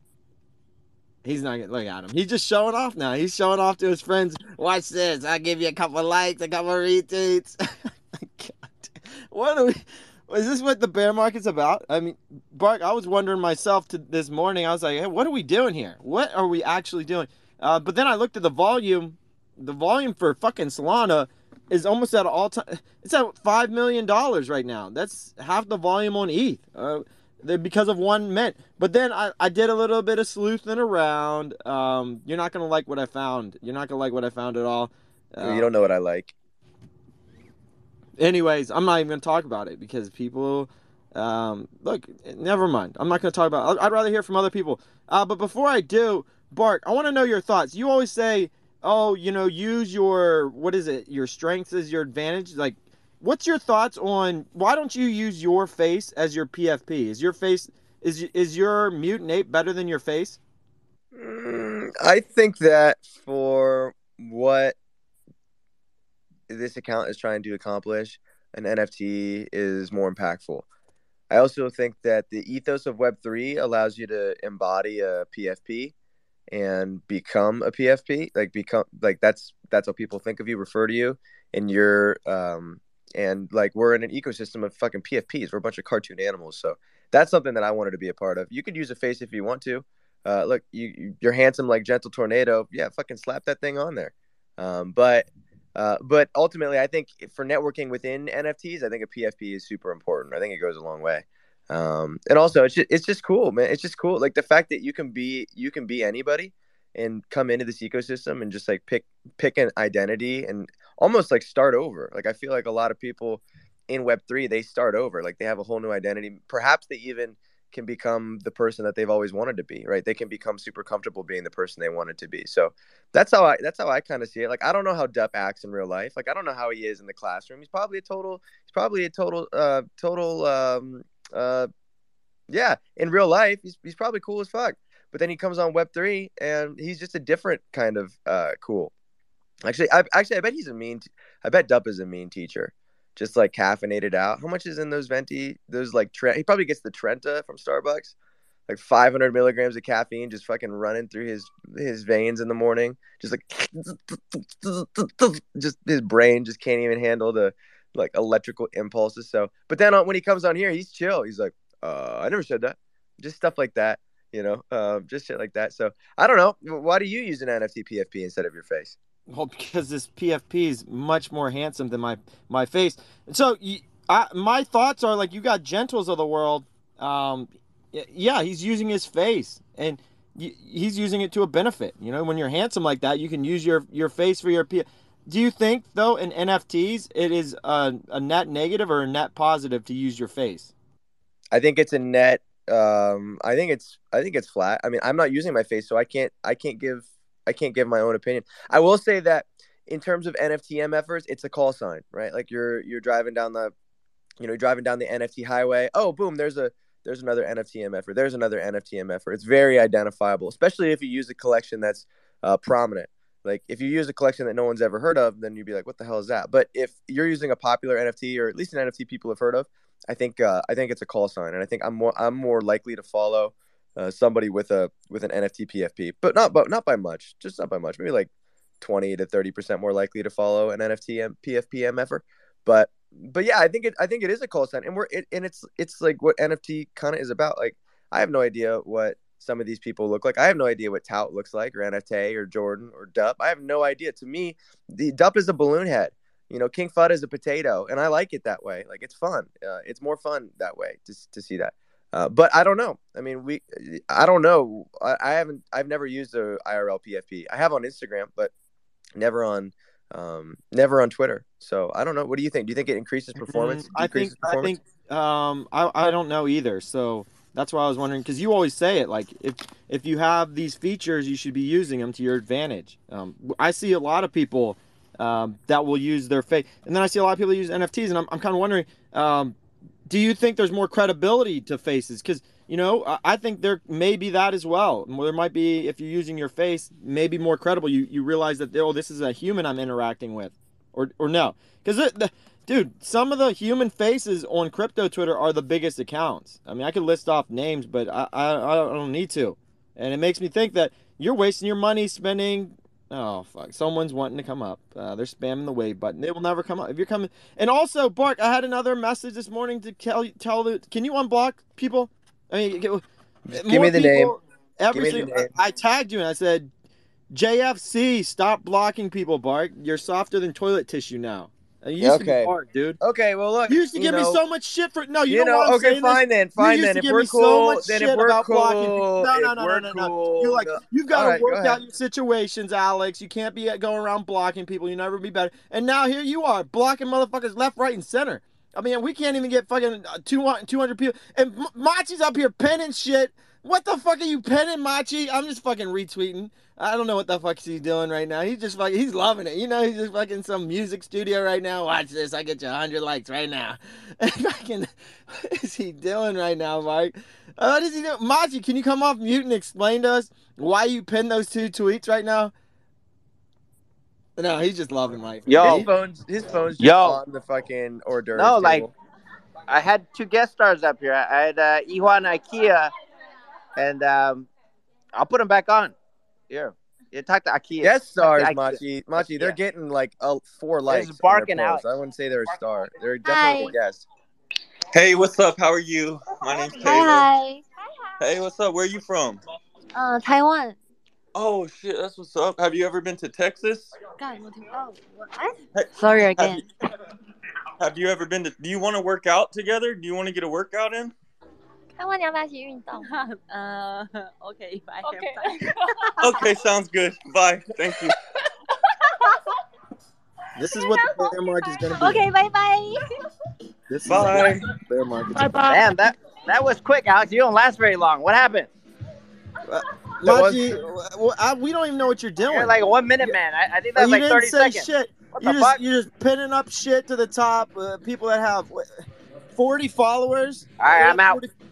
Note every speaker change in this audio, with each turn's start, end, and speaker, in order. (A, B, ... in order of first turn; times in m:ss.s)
0:01.2-0:35.7 A
0:35.4-0:36.3 B
0:38.2-1:00.4 A
1:01.1-1:04.8 B
1:06.5-1:10.6 B
1:11.3-1:15.9 B
1:16.5-2:11.7 B
2:12.5-2:18.9 B
2:19.6-2:28.1 B
2:28.7-2:49.0 B
2:49.3-3:10.7 A
3:11.5-3:23.7 B
3:24.4-3:48.3 B
3:48.8-4:18.5 B
4:19.2-4:24.7 B
4:23.4-5:16.7 A
5:13.4-5:14.4 B
5:14.9-5:15.5 B
5:17.3-5:23.0 A
5:22.0-5:24.4 B
5:23.7-6:02.5 A
5:25.3-5:31.8 B
6:04.4-6:05.9 A
6:05.5-6:05.8 C
6:05.6-6:08.9 B
6:06.8-6:07.2 C
6:08.3-6:08.9 C
6:09.7-6:12.9 C
6:13.8-6:14.5 C
6:15.1-6:15.9 C
6:16.5-6:19.6 C
6:17.8-6:24.0 B
6:20.9-6:21.8 C
6:22.5-6:22.8 C
6:23.2-6:23.7 D
6:24.9-6:27.3 E
6:26.5-6:27.6 D
6:28.2-6:29.4 E
6:29.9-6:30.8 D
6:31.3-6:33.9 E
6:34.2-6:36.6 D
6:35.7-6:36.6 E
6:37.8-6:41.1 E
6:42.0-6:46.5 D
6:46.2-6:48.1 E
6:50.6-6:52.2 A
6:52.0-6:53.0 D
6:53.9-6:55.9 A
6:54.0-6:54.7 E
6:55.6-6:58.7 C
6:59.7-7:03.4 A
7:00.2-7:00.8 B
7:02.4-7:05.8 C
7:04.0-7:08.9 A
7:09.5-7:11.5 A
7:10.8-7:11.4 C